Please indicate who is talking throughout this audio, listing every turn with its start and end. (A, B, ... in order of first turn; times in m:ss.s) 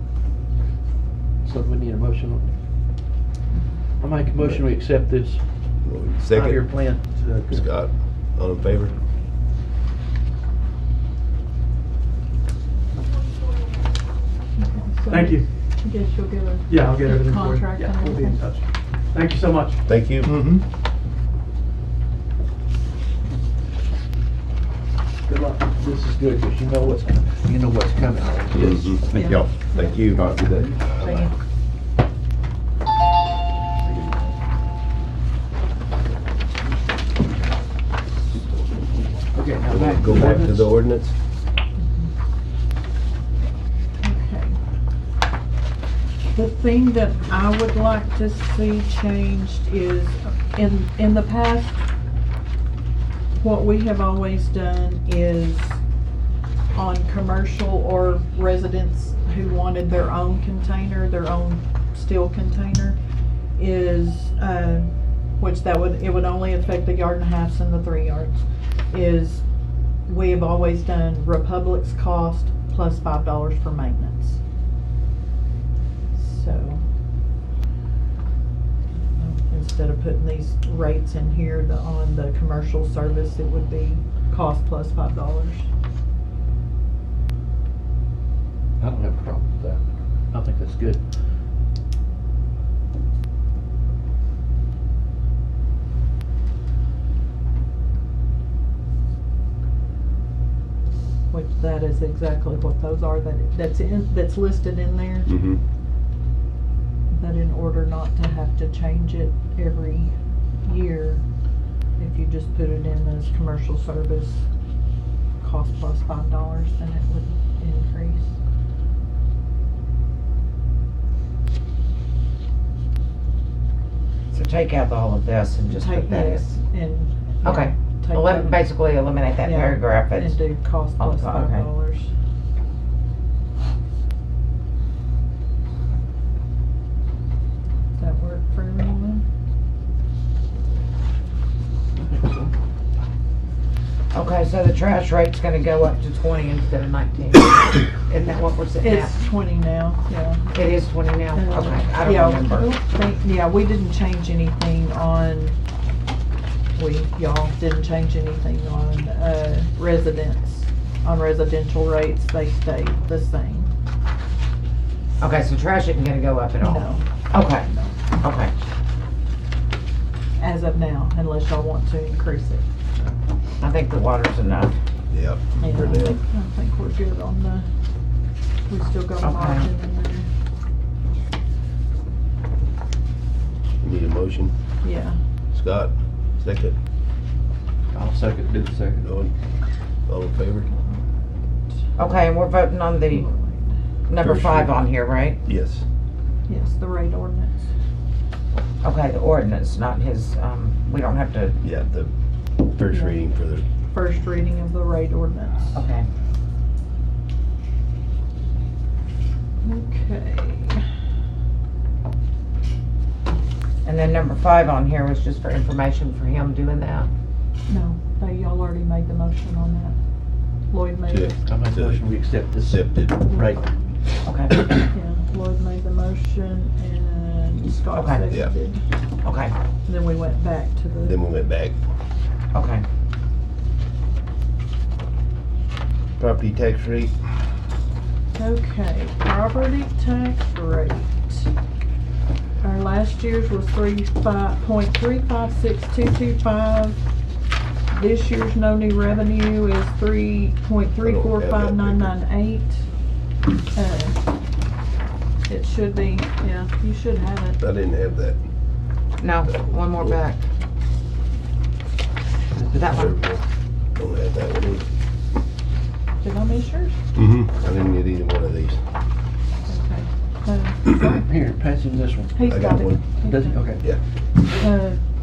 0:01.4-0:02.6 A
0:04.0-0:05.4 A
0:05.8-0:06.6 B
0:06.3-0:07.7 A
0:07.5-0:09.0 B
0:14.6-0:18.4 C
0:15.1-0:15.4 D
0:16.7-0:18.6 D
0:19.1-0:19.8 D
0:19.9-0:20.3 B
0:25.3-0:29.2 A
0:28.6-0:31.2 B
0:30.2-0:31.3 A
0:33.8-0:34.3 A
0:39.3-0:40.7 A
0:39.5-0:40.2 E
0:39.7-0:41.1 B
0:41.8-0:42.1 C
0:44.0-0:44.6 C
0:46.3-0:51.8 C
0:53.4-0:55.8 C
0:56.7-1:03.0 C
1:03.6-1:09.4 C
1:10.1-1:14.4 C
1:16.1-1:16.8 C
1:19.1-1:25.7 C
1:28.8-1:31.0 A
1:41.3-1:45.3 C
1:45.3-1:45.6 B
1:47.1-1:50.1 C
1:50.6-1:51.2 C
1:52.0-1:54.4 C
1:55.4-1:58.3 C
2:04.3-2:06.4 E
2:05.7-2:08.5 C
2:07.4-2:10.4 E
2:09.4-2:12.1 C
2:11.0-2:11.6 E
2:18.0-2:19.2 C
2:22.0-2:22.5 A
2:24.1-2:29.2 E
2:28.8-2:30.5 C
2:30.5-2:32.7 E
2:31.3-2:35.6 C
2:36.8-2:43.7 C
2:45.2-2:48.5 E
2:46.6-2:48.0 C
2:50.4-2:52.7 C
2:53.6-2:54.7 E
2:55.1-2:56.2 B
2:55.6-2:57.7 C
2:55.6-2:56.1 E
2:58.7-3:00.3 C
2:59.2-2:59.7 E
3:03.8-3:04.5 B
3:04.8-3:05.2 C
3:05.5-3:06.7 B
3:07.9-3:09.0 A
3:09.0-3:09.3 B
3:10.1-3:10.7 B
3:10.7-3:11.0 C
3:12.0-3:13.3 E
3:13.1-3:13.8 C
3:14.1-3:15.4 E
3:14.1-3:14.8 B
3:15.4-3:15.8 B
3:16.5-3:17.7 C
3:18.8-3:21.6 E
3:21.6-3:23.6 B
3:23.9-3:25.8 C
3:25.7-3:26.1 E
3:29.6-3:30.8 C
3:33.8-3:37.1 E
3:37.7-3:40.0 C
3:40.7-3:41.4 C
3:41.1-3:42.0 B
3:41.4-3:43.6 A
3:42.6-3:43.2 B
3:44.2-3:44.8 E
3:44.9-3:48.8 C
3:47.9-3:48.3 E
3:49.2-3:49.5 E
3:49.8-3:51.2 C
3:51.1-3:51.8 B
3:52.5-3:52.8 E
3:56.2-3:57.1 B
3:58.3-4:01.5 C
4:02.6-4:07.0 C
4:07.9-4:12.8 C
4:11.0-4:12.1 B
4:13.7-4:14.2 C
4:15.5-4:17.6 C
4:17.6-4:18.4 B
4:19.2-4:20.4 E
4:22.6-4:22.8 A
4:22.6-4:23.1 E
4:22.8-4:23.4 B
4:24.0-4:24.8 B
4:26.2-4:27.0 C
4:27.1-4:28.8 B
4:29.7-4:31.3 C
4:31.2-4:32.4 A
4:32.3-4:33.6 C
4:32.5-4:33.0 B
4:33.2-4:33.8 A
4:34.6-4:35.0 C